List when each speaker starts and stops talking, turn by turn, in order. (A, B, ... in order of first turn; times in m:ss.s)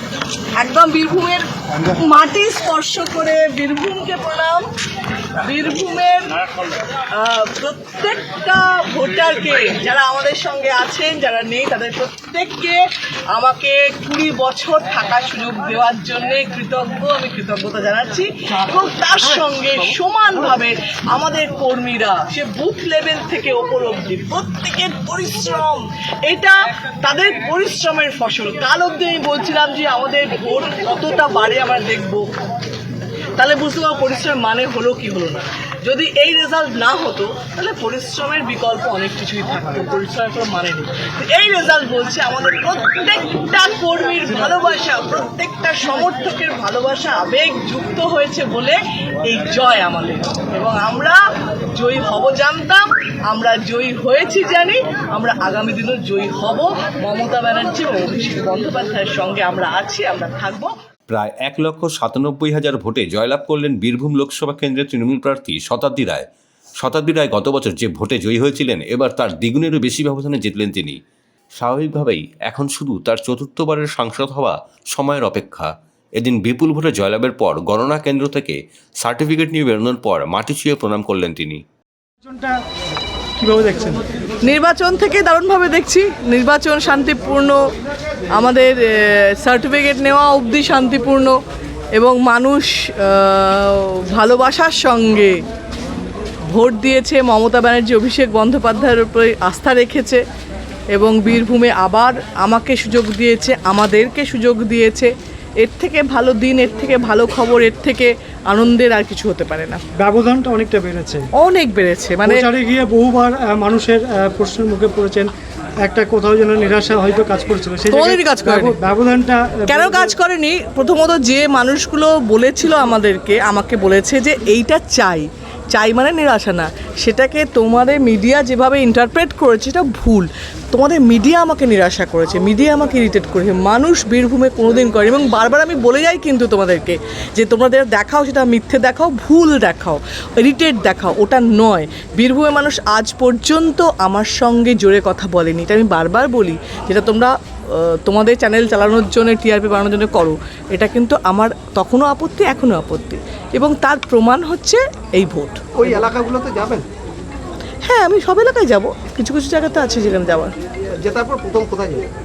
0:00.6-0:04.6 A
0:05.4-0:06.4 A
0:07.1-0:32.3 A
0:33.4-0:51.2 A
0:51.7-1:00.7 A
1:01.1-1:06.3 B
1:06.8-1:11.0 B
1:11.6-1:21.6 B
1:22.2-1:22.6 C
1:23.4-1:24.0 C
1:24.4-1:27.6 A
1:28.3-1:31.3 A
1:32.0-1:35.3 A
1:36.5-1:40.2 A
1:40.9-1:45.1 A
1:45.6-1:49.8 A
1:49.9-1:51.2 C
1:51.4-1:52.4 A
1:52.2-1:55.3 C
1:55.8-2:00.1 C
1:57.9-1:58.8 A
1:59.7-2:36.0 A
2:35.8-2:36.8 D
2:37.8-2:40.5 A
2:41.0-2:42.1 D